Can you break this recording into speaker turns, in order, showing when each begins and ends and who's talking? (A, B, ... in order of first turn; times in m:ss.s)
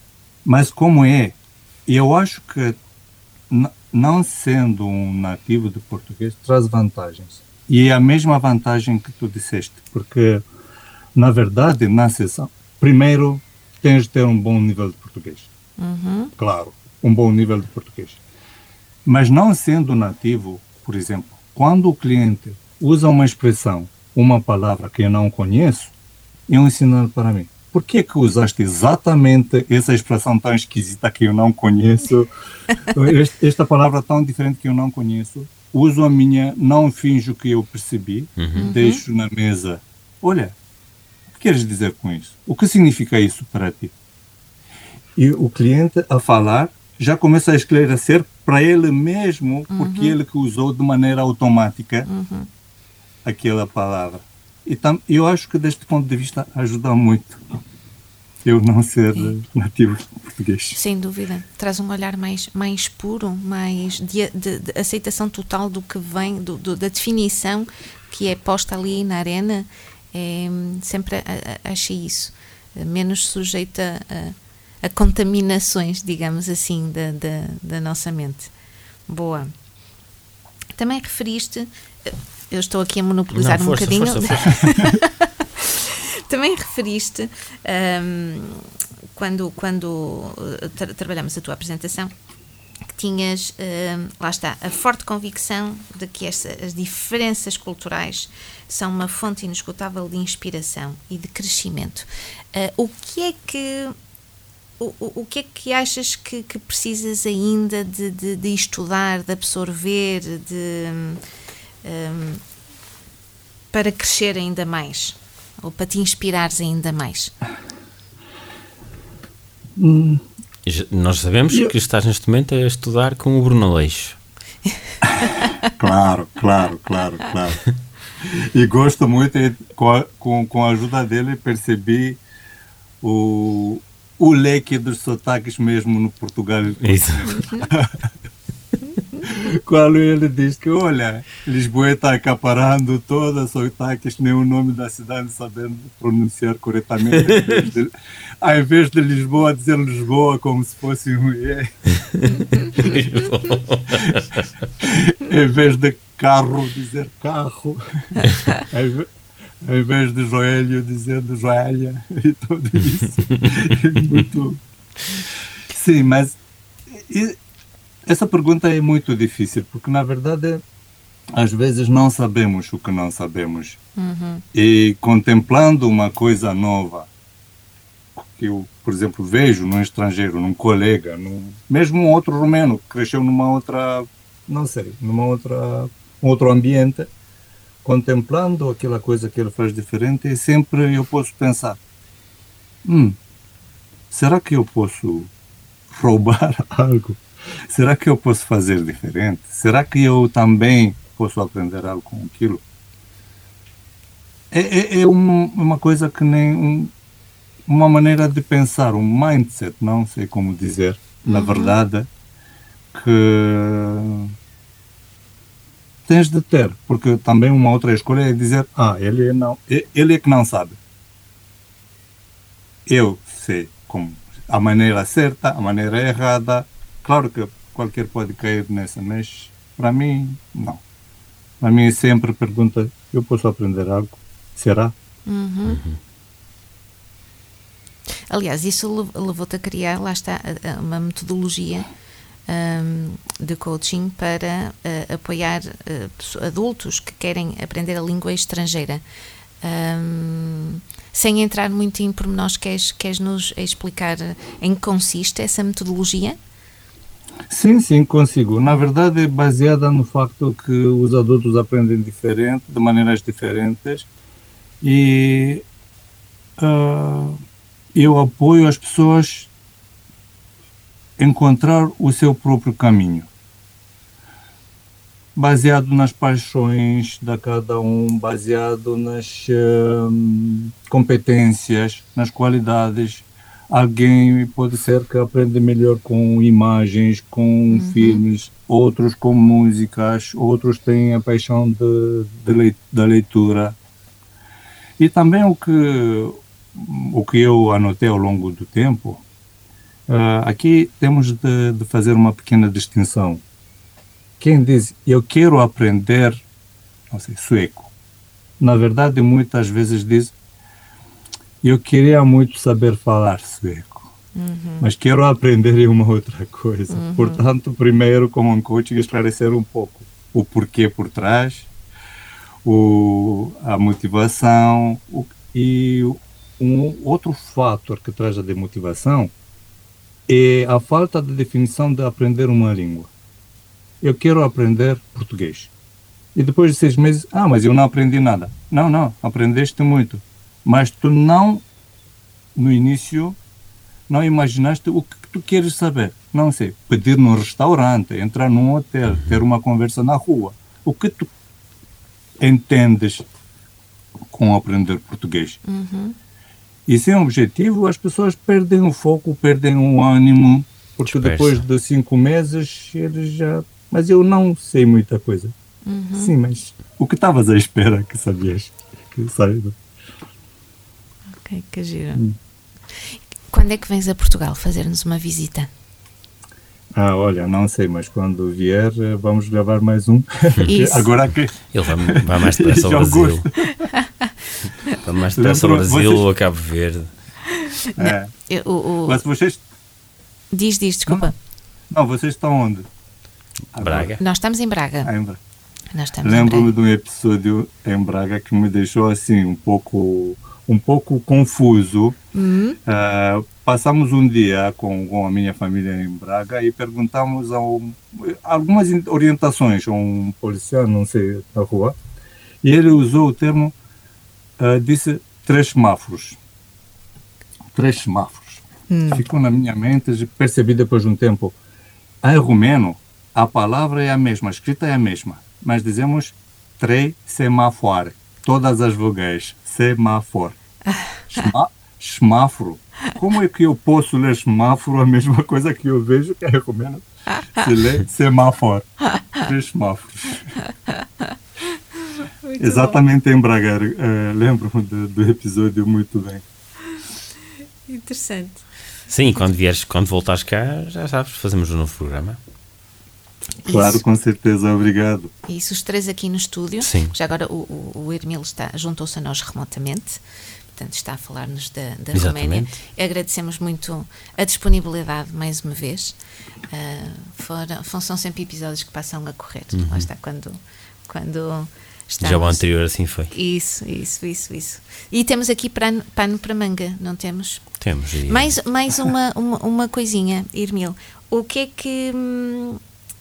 0:00.4-0:02.8 A
0:03.5-0:10.4 A
0:11.2-0:15.5 A
0:15.8-0:16.3 B
0:16.4-0:18.2 A
0:19.0-0:25.9 A
0:26.5-0:32.3 A
0:32.9-0:40.6 A
0:38.4-0:38.7 C
0:38.6-0:39.0 B
0:41.3-0:43.9 A
0:45.2-0:52.1 A
0:49.7-0:50.2 B
0:52.0-0:52.5 B
0:53.2-0:57.4 A
0:58.4-1:00.8 A
1:00.7-1:18.5 B
1:19.1-1:19.5 B
1:20.7-1:32.1 B
1:23.3-1:24.7 C
1:24.6-1:25.0 A
1:32.9-1:43.9 B
1:44.8-1:51.2 B
1:51.8-1:52.4 B
1:53.7-1:57.3 B
1:59.8-2:00.2 A
2:00.6-2:04.2 C
2:05.0-2:07.6 A
2:08.2-2:12.2 A
2:13.0-2:17.9 A
2:16.8-2:17.6 C
2:17.3-2:17.6 B
2:19.2-2:27.9 A
2:27.1-2:27.6 C
2:28.4-2:31.9 A
2:32.8-2:34.5 C
2:34.8-2:39.1 A
2:39.6-2:44.6 A
2:45.7-2:46.4 A
2:46.9-2:47.4 A
2:48.0-2:50.6 A
2:51.4-2:53.8 A
2:54.0-2:54.4 B
2:54.5-2:57.1 A
2:58.2-3:07.1 A
3:07.8-3:11.8 A
3:12.8-3:13.2 A
3:14.1-3:15.3 A
3:15.9-3:22.6 A
3:24.5-3:26.9 A
3:27.7-3:32.1 A
3:31.2-3:31.8 B
3:32.9-3:34.3 A
3:36.0-3:40.8 A
3:42.8-3:50.8 A
3:51.6-3:54.9 A
3:55.2-3:55.8 B
3:55.6-3:56.0 C
3:58.3-4:01.9 B
4:02.5-4:09.0 B
4:09.6-4:16.4 B
4:17.5-4:24.1 A
4:24.8-4:25.6 A
4:26.6-4:27.4 A
4:27.9-4:29.5 A
4:31.2-4:33.3 A
4:35.4-4:53.8 A
4:47.7-4:48.2 B
4:55.0-4:59.2 A
5:00.1-5:03.4 A
5:04.4-5:06.4 A
5:07.1-5:07.9 A
5:08.6-5:10.3 A
5:11.6-5:14.1 A
5:14.3-5:14.9 B
5:14.8-5:21.7 A
5:16.9-5:17.4 B
5:22.6-5:29.3 A
5:30.3-5:33.1 A
5:34.0-5:35.7 A
5:36.3-5:41.6 A
5:42.5-5:43.4 A
5:44.1-5:51.3 A
5:52.4-5:53.2 A
5:54.3-5:55.6 A
5:55.6-5:56.2 B
5:56.9-6:05.5 A
6:01.0-6:01.6 C
6:05.8-6:06.3 B
6:06.2-6:09.7 A
6:11.4-6:12.2 B
6:13.5-6:15.7 B
6:16.9-6:23.9 A
6:20.6-6:21.1 B
6:21.7-6:23.4 C
6:24.0-6:24.3 B
6:25.0-6:27.1 C
6:25.3-6:26.2 A
6:28.0-6:28.3 A
6:28.0-6:29.2 B
6:29.0-6:29.6 A
6:30.5-6:31.3 B
6:31.9-6:32.9 A
6:33.7-6:34.2 A
6:33.8-6:34.2 C
6:34.2-6:35.1 B
6:35.0-6:35.4 A
6:35.9-6:36.7 B
6:36.2-6:42.2 A
6:42.3-6:42.8 B
6:42.8-6:52.0 A
6:52.6-6:53.7 A
6:54.6-6:56.4 A
6:57.7-7:01.6 A
6:58.9-6:59.2 B
7:02.2-7:10.6 A
7:10.9-7:11.4 B
7:11.3-7:20.5 A
7:22.4-7:23.0 B
7:22.6-7:26.4 A
7:27.9-7:28.6 B
7:29.1-7:32.4 C
7:33.6-7:34.0 B
7:33.6-7:35.3 A
7:35.5-7:40.2 B
7:36.8-7:37.1 C
7:40.7-7:46.2 B
7:42.1-7:42.8 C
7:46.7-7:52.6 B
7:49.7-7:50.1 C
7:52.2-7:53.3 C
7:53.3-8:02.8 B
7:57.8-7:58.5 C